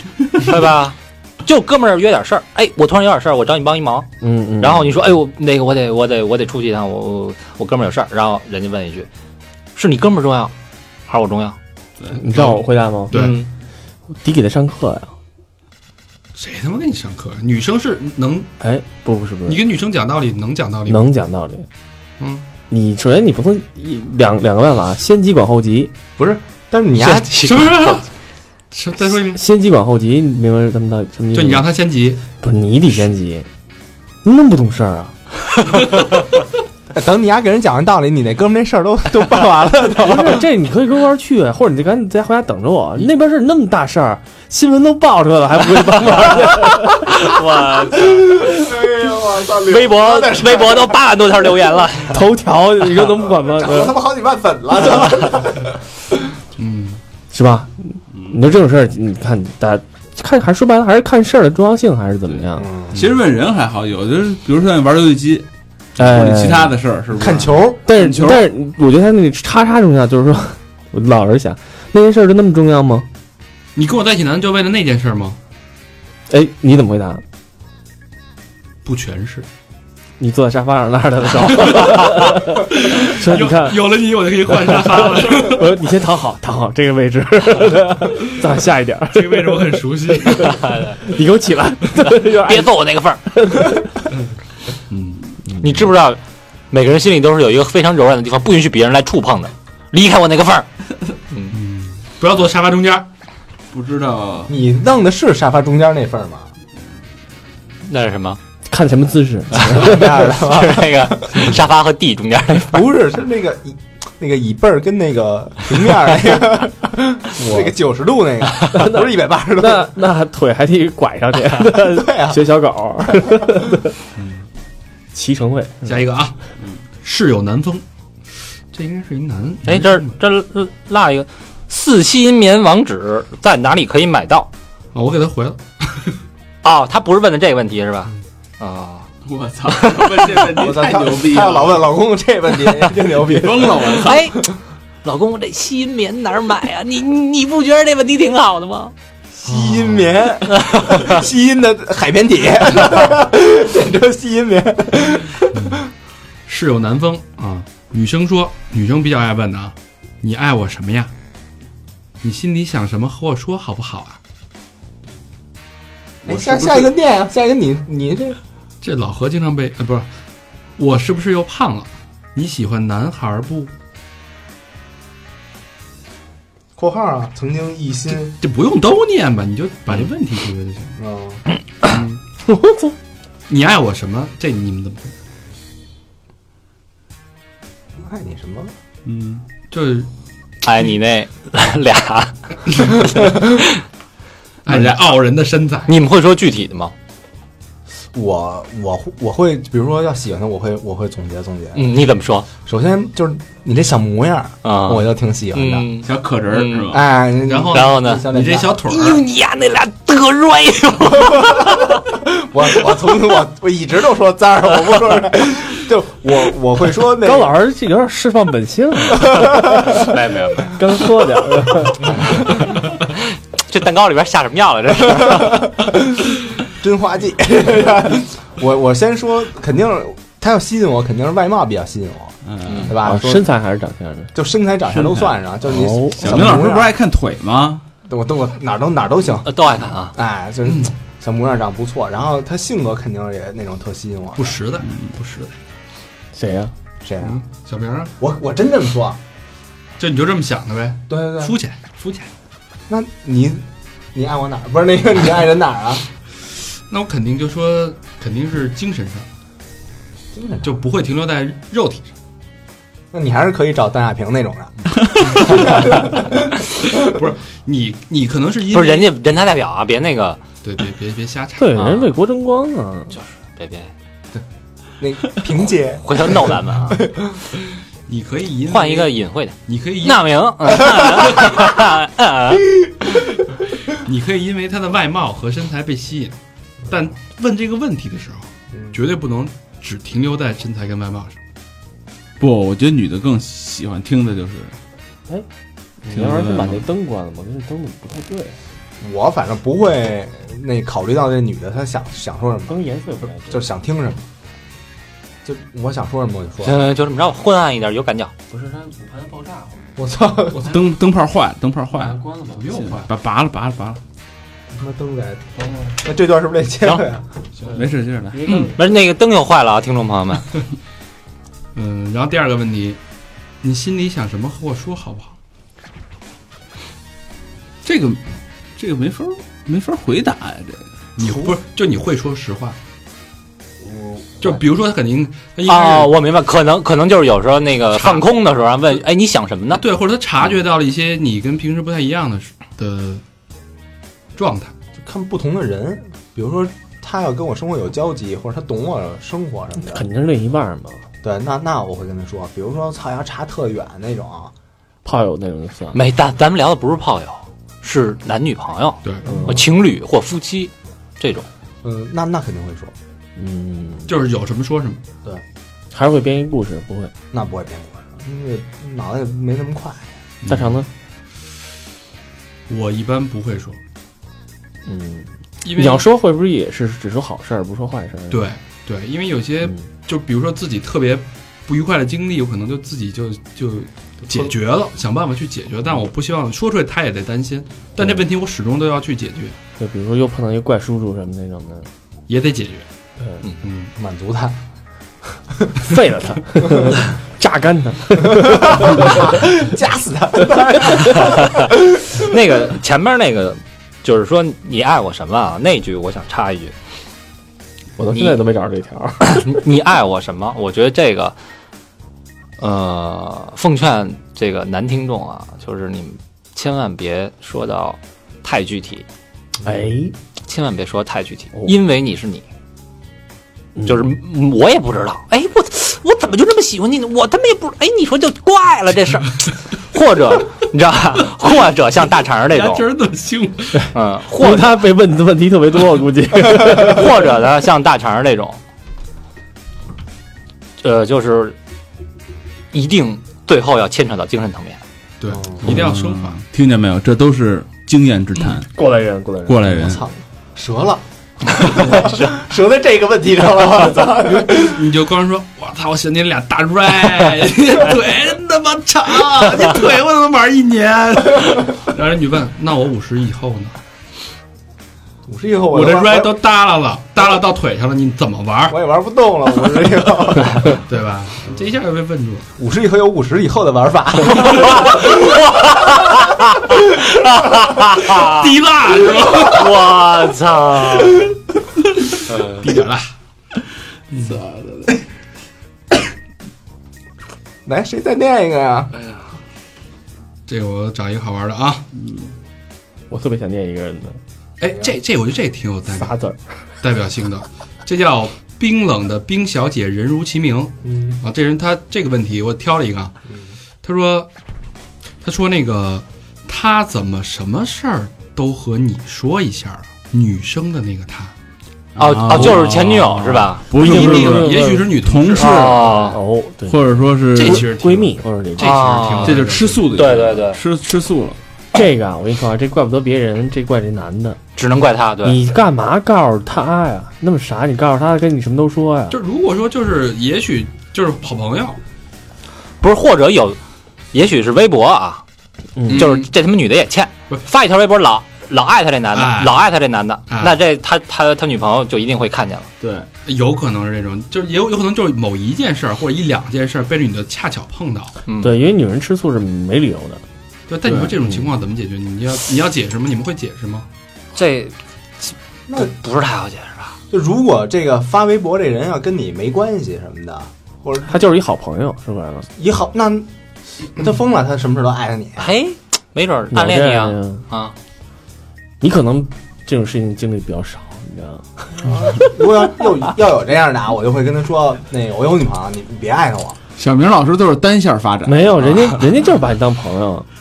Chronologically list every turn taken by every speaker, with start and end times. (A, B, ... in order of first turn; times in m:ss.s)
0:00.4-0:04.1 A
0:04.2-0:05.0 B
0:04.6-0:09.1 A
0:09.8-0:10.5 A
0:11.1-0:11.6 A
0:12.1-0:13.3 B
0:12.3-0:13.4 C
0:13.1-0:13.5 A
0:14.2-0:15.1 B
0:16.4-0:18.5 C
0:18.6-0:19.6 B
0:19.4-0:21.0 C
0:20.9-0:21.7 B
0:22.2-0:22.5 C
0:22.7-0:25.9 B
0:26.2-0:27.7 D
0:27.1-0:28.1 C
0:28.7-0:29.4 C
0:29.2-0:31.7 B
0:31.3-0:32.2 C
0:32.4-0:33.5 B
0:34.2-0:35.2 B
0:36.9-0:40.4 D
0:40.0-0:47.3 B
0:45.8-0:48.6 A
0:48.0-0:51.0 D
0:49.7-0:52.1 A
0:52.1-0:54.0 B
0:53.2-0:55.8 D
0:56.6-0:57.0 C
0:57.3-1:02.7 B
1:02.6-1:03.1 D
1:02.9-1:08.5 E
1:06.0-1:06.8 B
1:07.1-1:07.8 D
1:07.9-1:13.1 B
1:13.8-1:15.4 C
1:16.3-1:17.2 B
1:18.8-1:19.5 C
1:20.2-1:23.8 B
1:21.6-1:25.7 C
1:24.5-1:34.1 B
1:29.1-1:30.8 C
1:30.6-1:31.0 A
1:32.3-1:33.2 A
1:34.9-1:35.3 C
1:35.6-1:36.2 A
1:36.7-1:40.7 A
1:41.5-1:43.1 C
1:43.7-1:44.5 E
1:44.5-1:46.5 D
1:47.8-1:48.4 A
1:48.7-1:50.4 B
1:49.7-1:51.6 D
1:49.9-1:52.8 A
1:52.7-1:59.9 D
1:57.4-1:57.8 B
1:58.7-2:03.9 B
2:01.8-2:02.5 D
2:05.1-2:06.1 B
2:05.8-2:06.4 C
2:07.0-2:07.8 C
2:08.7-2:10.2 C
2:09.7-2:14.5 A
2:14.9-2:16.1 C
2:16.6-2:19.1 A
2:19.3-2:21.9 E
2:19.9-2:20.4 A
2:20.5-2:24.2 D
2:23.3-2:24.3 E
2:24.0-2:24.4 A
2:25.0-2:28.9 A
2:29.4-2:35.8 D
2:29.4-2:30.3 C
2:35.5-2:35.8 C
2:36.5-2:41.1 C
2:42.2-2:44.2 C
2:46.2-2:46.9 E
2:46.2-2:48.4 D
2:48.8-2:50.1 C
2:50.8-2:53.7 C
2:56.8-2:58.4 D
2:58.1-3:01.0 C
3:01.0-3:01.4 D
3:01.8-3:02.2 C
3:02.5-3:02.9 B
3:03.5-3:05.1 C
3:08.0-3:08.7 D
3:09.0-3:09.4 E
3:09.7-3:10.1 C
3:10.6-3:12.3 A
3:12.9-3:13.6 A
3:14.6-3:15.9 C
3:14.7-3:15.0 E
3:15.9-3:16.9 A
3:18.1-3:21.9 D
3:21.8-3:22.5 A
3:22.6-3:25.9 D
3:24.6-3:26.9 A
3:26.0-3:27.1 E
3:26.9-3:28.8 D
3:27.4-3:29.2 C
3:27.7-3:28.2 A
3:28.9-3:31.9 A
3:32.1-3:37.6 D
3:37.2-3:40.1 B
3:39.3-3:40.0 D
3:40.0-3:40.8 A
3:40.7-3:42.2 B
3:43.7-3:45.6 A
3:45.3-3:46.0 D
3:46.6-3:53.5 D
3:52.4-3:52.9 E
3:52.6-3:52.9 A
3:53.0-3:54.3 B
3:54.3-3:57.0 D
3:54.9-3:55.3 E
3:55.7-3:56.5 B
3:55.9-3:57.8 E
3:58.0-3:59.5 D
3:59.4-4:00.1 A
4:00.1-4:04.6 D
4:00.6-4:00.9 C
4:04.4-4:05.6 C
4:06.3-4:06.7 B
4:07.0-4:07.4 D
4:07.2-4:08.1 C
4:08.2-4:09.2 D
4:10.0-4:12.3 C
4:11.1-4:11.6 D
4:12.9-4:16.1 D
4:16.9-4:19.3 C
4:20.3-4:20.8 D
4:20.6-4:22.1 C
4:23.1-4:27.1 D
4:25.4-4:25.7 C
4:27.0-4:29.1 C
4:28.7-4:30.4 A
4:30.6-4:31.9 C
4:31.6-4:33.1 B
4:31.8-4:32.0 A
4:33.1-4:33.9 A
4:35.0-4:37.4 D
4:36.0-4:37.0 A
4:38.1-4:39.1 C
4:38.7-4:42.7 A
4:39.7-4:41.6 C
4:43.9-4:46.4 C
4:46.9-4:51.4 C
4:52.4-4:54.8 E
4:56.1-4:58.6 B
4:56.1-4:56.9 E
4:59.0-5:02.8 D
5:02.7-5:03.7 B
5:03.5-5:04.2 D
5:05.4-5:06.8 D
5:06.6-5:08.3 A
5:08.5-5:09.9 B
5:10.0-5:10.7 D
5:10.6-5:12.2 E
5:12.0-5:12.6 B
5:12.6-5:13.1 C
5:12.8-5:14.0 E
5:14.7-5:17.3 D
5:17.7-5:18.7 E
5:18.3-5:18.7 B
5:18.8-5:20.5 A
5:21.8-5:23.0 C
5:23.6-5:25.4 C
5:27.8-5:28.2 E
5:28.8-5:30.9 E
5:31.2-5:32.8 C
5:33.8-5:34.6 D
5:34.4-5:36.1 C
5:35.7-5:39.8 A
5:39.8-5:43.2 C
5:44.4-5:44.7 C
5:45.0-5:50.0 D
5:49.8-5:51.0 B
5:51.2-5:54.5 D
5:55.0-5:56.0 B
5:55.9-6:01.5 A
5:59.2-5:59.7 B
6:01.8-6:02.9 D
6:03.4-6:04.1 B
6:04.1-6:05.0 C
6:05.9-6:07.1 B
6:07.3-6:10.1 D
6:10.4-6:10.8 C
6:10.5-6:10.9 B
6:12.7-6:13.8 C
6:14.9-6:18.5 B
6:15.6-6:16.1 C
6:18.3-6:29.6 C
6:29.8-6:31.9 B
6:32.3-6:32.9 C
6:33.6-6:33.9 C
6:34.0-6:34.6 D
6:35.9-6:39.2 B
6:38.3-6:42.2 D
6:42.2-6:46.7 A
6:48.0-6:49.6 B
6:48.1-6:48.4 A
6:49.2-6:51.4 A
6:52.6-6:59.0 A
6:59.6-7:00.2 B
7:00.5-7:02.4 A
7:03.8-7:04.1 B
7:03.8-7:12.8 A
7:12.5-7:13.9 C
7:13.9-7:14.8 A
7:14.3-7:17.1 B
7:16.7-7:18.6 A
7:20.8-7:21.6 A
7:22.7-7:24.8 A
7:25.2-7:26.4 C
7:25.3-7:25.8 D
7:25.6-7:28.7 E
7:28.8-7:29.7 B
7:29.5-7:30.0 E
7:29.7-7:34.8 D
7:31.9-7:32.3 A
7:34.2-7:43.8 C
7:45.3-7:46.3 D
7:45.7-7:48.8 C
7:48.7-7:50.8 D
7:50.9-7:52.5 C
7:52.6-7:55.2 D
7:54.4-7:58.5 A
7:58.2-7:59.7 C
7:59.4-8:01.3 A
8:02.3-8:02.6 A
8:02.6-8:03.1 C
8:04.1-8:04.4 C
8:04.2-8:05.0 E
8:07.6-8:08.9 D
8:10.5-8:11.9 C
8:12.0-8:12.3 E
8:13.1-8:14.2 B
8:14.6-8:16.2 C
8:14.7-8:14.9 D
8:15.9-8:16.4 B
8:16.8-8:23.1 C
8:20.8-8:21.2 D
8:23.8-8:24.3 C
8:25.2-8:31.3 C
8:32.0-8:36.1 E
8:32.0-8:33.6 A
8:33.7-8:35.7 C
8:33.8-8:34.9 B
8:35.4-8:36.2 A
8:36.1-8:38.8 B
8:36.7-8:37.7 E
8:37.3-8:39.9 C
8:38.6-8:39.4 A
8:39.2-8:41.4 E
8:40.0-8:40.6 A
8:41.7-8:44.4 B
8:44.6-8:45.4 A
8:45.2-8:49.2 B
8:49.1-8:51.8 C
8:52.8-8:53.6 A
8:54.1-8:55.2 A
8:55.8-8:56.1 B
8:55.9-8:56.3 C
8:55.9-9:02.7 A
8:59.1-8:59.6 C
9:00.3-9:00.6 C
9:02.8-9:03.1 E
9:03.2-9:08.2 C
9:08.3-9:08.5 A
9:08.4-9:10.2 B
9:10.7-9:13.9 C
9:10.9-9:11.1 E
9:14.4-9:17.0 A
9:17.1-9:21.2 D
9:21.0-9:22.5 B
9:22.6-9:23.3 D
9:23.9-9:25.5 D
9:25.4-9:27.7 A
9:26.5-9:27.4 B
9:28.8-9:32.0 B
9:31.8-9:36.6 D
9:36.8-9:38.8 E
9:38.3-9:40.3 B